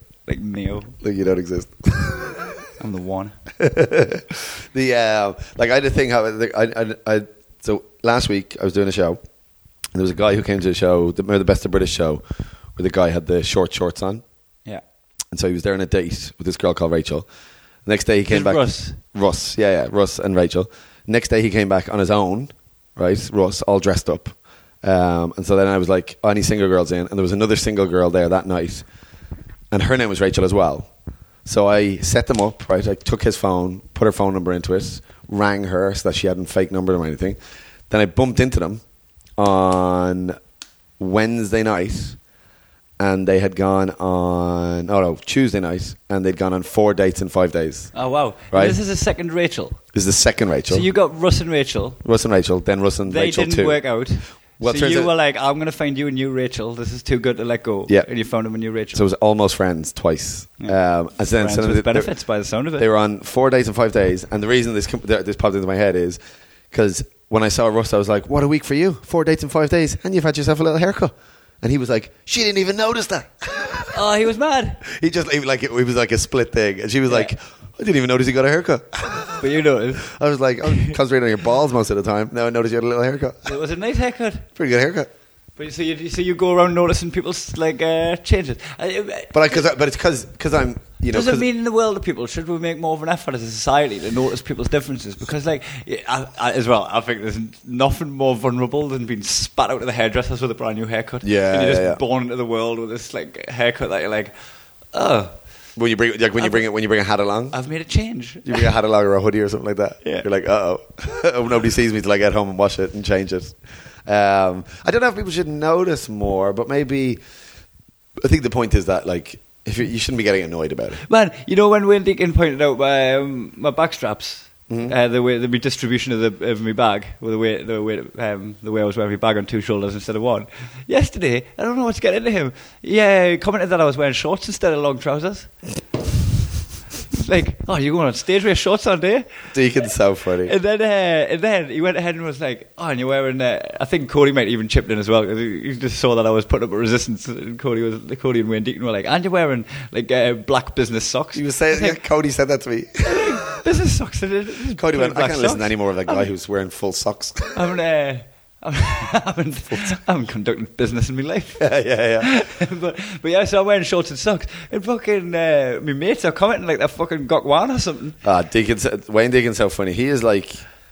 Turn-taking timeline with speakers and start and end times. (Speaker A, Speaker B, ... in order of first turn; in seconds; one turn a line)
Speaker A: 0.2-1.0
Speaker B: 1.0-2.5
Speaker A: 2.8-3.4
Speaker B: 3.6-9.2
Speaker B: 9.9-12.2
Speaker B: 12.7-14.2
Speaker B: 15.3-17.3
Speaker B: 17.8-28.9
Speaker A: 18.3-19.0
Speaker B: 29.7-30.9
Speaker B: 31.4-37.4
Speaker B: 37.9-38.8
Speaker B: 39.4-40.4
Speaker B: 41.0-42.2
Speaker B: 43.0-47.9
Speaker A: 47.9-49.8
Speaker B: 48.5-48.8
Speaker B: 49.9-50.9
Speaker A: 50.7-52.0
Speaker B: 52.0-55.1
Speaker A: 53.1-59.0
Speaker B: 58.9-62.1
Speaker A: 60.6-62.9
Speaker B: 62.8-66.2
Speaker B: 66.7-74.0
Speaker A: 73.9-74.8
Speaker B: 74.8-79.5
Speaker A: 77.1-77.3
Speaker A: 79.4-80.1
Speaker B: 80.0-83.5
Speaker A: 80.7-80.9
Speaker A: 83.4-84.5
Speaker B: 84.5-85.1
Speaker A: 85.5-89.6
Speaker B: 89.3-91.5
Speaker A: 91.1-104.3
Speaker B: 101.2-102.0
Speaker A: 104.9-105.3
Speaker B: 105.8-107.5
Speaker A: 106.4-106.7
Speaker A: 107.5-108.7
Speaker B: 108.4-117.2
Speaker B: 118.2-121.0
Speaker A: 121.0-135.5
Speaker B: 124.7-124.9
Speaker A: 137.1-139.6
Speaker B: 139.5-140.5
Speaker A: 140.4-152.0
Speaker B: 151.3-153.3
Speaker A: 153.0-156.3
Speaker B: 154.8-157.6
Speaker A: 157.5-168.2
Speaker B: 159.7-160.0
Speaker B: 161.6-162.3
Speaker B: 168.2-170.6